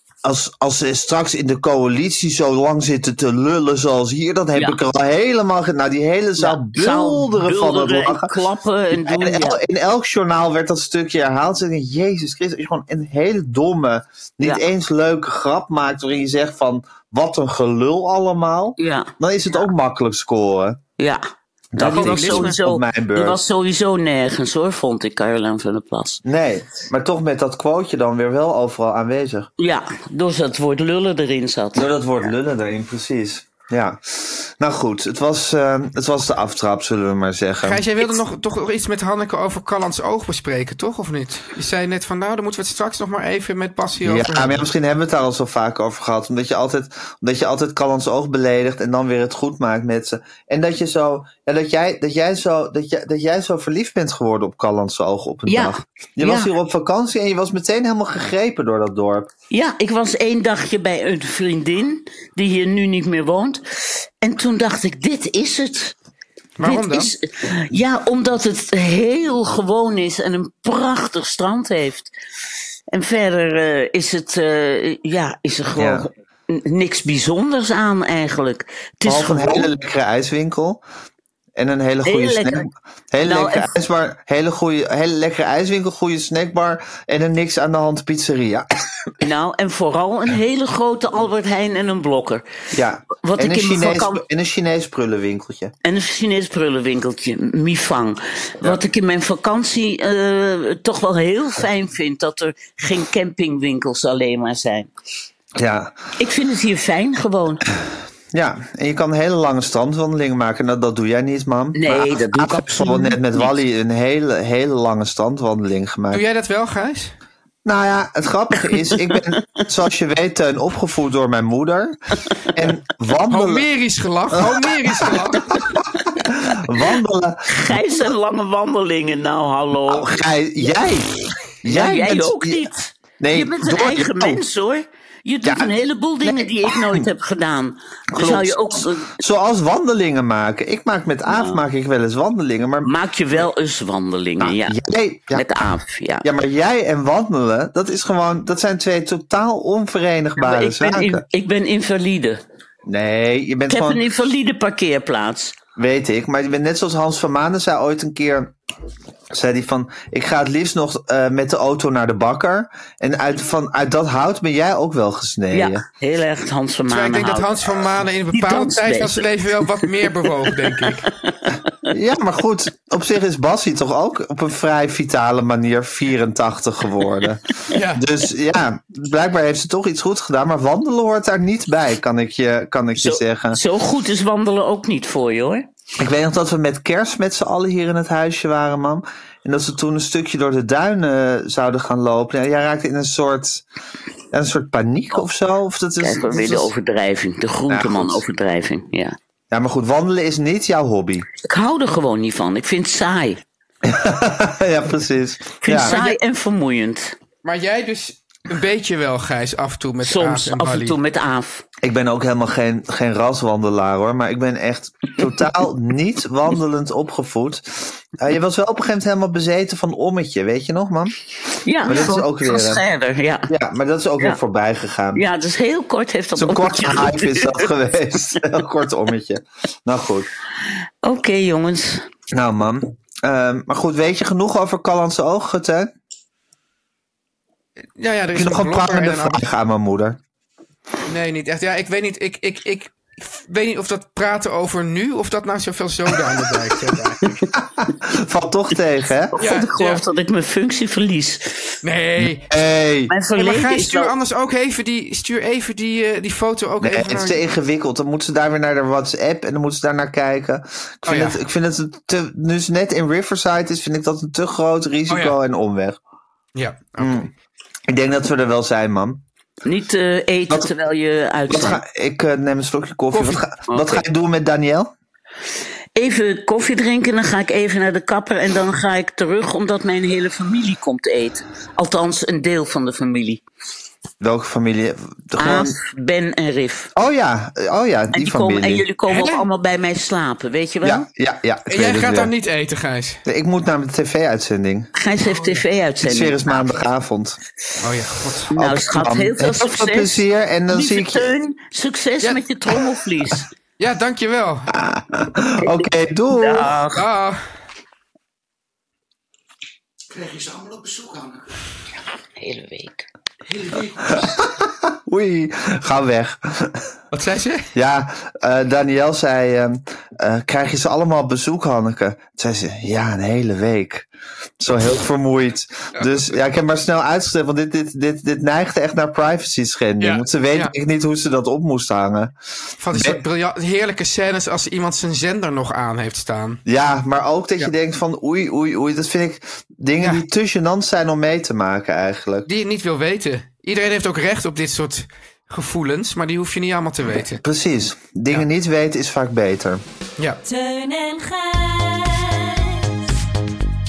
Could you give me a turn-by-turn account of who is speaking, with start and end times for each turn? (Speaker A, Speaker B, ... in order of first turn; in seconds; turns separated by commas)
Speaker A: 0.2-8.4, Speaker B: 6.4-9.6, Speaker A: 9.0-20.8, Speaker B: 18.8-19.6, Speaker A: 21.7-23.4, Speaker B: 21.7-26.2, Speaker C: 21.8-22.6, Speaker A: 26.2-29.5, Speaker B: 29.6-31.9, Speaker A: 31.8-37.8, Speaker C: 37.6-44.6, Speaker A: 44.0-59.3, Speaker B: 55.5-56.5, Speaker B: 59.5-65.9, Speaker C: 66.6-67.1, Speaker B: 66.6-72.1, Speaker B: 72.9-79.7, Speaker A: 75.8-76.1, Speaker A: 79.0-80.8, Speaker A: 81.5-89.1, Speaker B: 82.0-82.7, Speaker B: 83.2-83.7, Speaker B: 89.2-92.4, Speaker A: 92.7-95.7, Speaker B: 93.2-94.2, Speaker B: 95.8-104.9, Speaker A: 105.5-106.0, Speaker B: 106.2-107.6, Speaker A: 108.3-116.2, Speaker B: 111.7-113.5, Speaker C: 116.1-117.1, Speaker A: 117.6-122.0, Speaker B: 118.9-119.6, Speaker A: 122.5-123.7, Speaker C: 123.3-125.7, Speaker A: 124.3-127.9, Speaker B: 125.5-126.0, Speaker B: 127.5-130.2, Speaker A: 129.9-131.1, Speaker A: 131.6-134.4, Speaker B: 131.6-139.1, Speaker A: 135.4-135.7, Speaker A: 136.2-137.1, Speaker A: 138.1-143.4, Speaker B: 141.3-141.6, Speaker B: 142.8-144.8, Speaker A: 144.4-145.4, Speaker B: 145.3-146.3, Speaker A: 146.2-151.2, Speaker B: 150.4-152.4, Speaker A: 152.8-154.0, Speaker B: 153.7-155.6, Speaker A: 155.8-158.5, Speaker A: 159.3-165.8, Speaker B: 165.5-167.7, Speaker C: 166.9-171.1, Speaker B: 168.3-169.9, Speaker B: 170.4-171.7, Speaker A: 171.9-183.6, Speaker C: 177.7-178.0, Speaker B: 182.9-185.7, Speaker A: 186.0-193.6, Speaker A: 194.3-196.7, Speaker B: 196.0-199.2, Speaker A: 197.7-198.2, Speaker A: 199.5-201.3, Speaker B: 201.4-203.4, Speaker A: 203.8-206.0, Speaker B: 205.6-207.2, Speaker C: 205.8-206.1, Speaker C: 207.4-211.0, Speaker B: 210.0-211.6, Speaker A: 211.8-221.2, Speaker B: 221.6-223.5, Speaker A: 221.8-222.8, Speaker A: 223.5-225.2, Speaker B: 225.1-227.7, Speaker A: 226.3-230.3, Speaker B: 231.0-232.0, Speaker A: 232.3-235.9, Speaker C: 238.0-239.4, Speaker A: 238.3-240.2, Speaker C: 241.1-247.4, Speaker A: 247.6-249.3, Speaker B: 249.3-251.8, Speaker C: 249.4-250.0, Speaker C: 251.8-252.5, Speaker A: 252.2-253.1, Speaker B: 253.1-254.1, Speaker C: 253.3-257.4, Speaker A: 256.8-266.0, Speaker C: 261.1-261.4, Speaker C: 265.1-265.4, Speaker C: 266.5-267.3, Speaker A: 267.0-267.3, Speaker A: 267.9-269.2, Speaker B: 269.6-271.8, Speaker A: 271.5-274.9, Speaker B: 273.7-274.0, Speaker B: 275.9-283.4, Speaker A: 284.2-285.8, Speaker B: 285.4-286.9, Speaker A: 286.9-288.8, Speaker B: 288.1-291.0, Speaker C: 289.1-289.4, Speaker A: 290.8-292.3, Speaker C: 291.7-293.2, Speaker A: 293.2-294.9, Speaker B: 294.9-296.8, Speaker C: 295.4-295.6, Speaker A: 296.0-297.4, Speaker C: 297.8-298.5, Speaker B: 298.5-303.4, Speaker A: 298.6-301.3, Speaker C: 303.8-304.7, Speaker A: 304.7-306.8, Speaker B: 305.6-307.0, Speaker C: 306.9-307.4, Speaker C: 310.2-311.2, Speaker B: 312.4-313.1, Speaker C: 313.6-314.0, Speaker A: 314.0-316.9, Speaker C: 317.1-317.7, Speaker A: 317.7-324.1, Speaker A: 324.6-332.3, Speaker C: 325.9-326.3, Speaker C: 330.0-330.7, Speaker C: 332.8-336.6, Speaker A: 332.9-333.2, Speaker A: 336.6-342.5, Speaker C: 342.5-347.4, Speaker A: 347.4-349.8, Speaker D: 350.4-353.1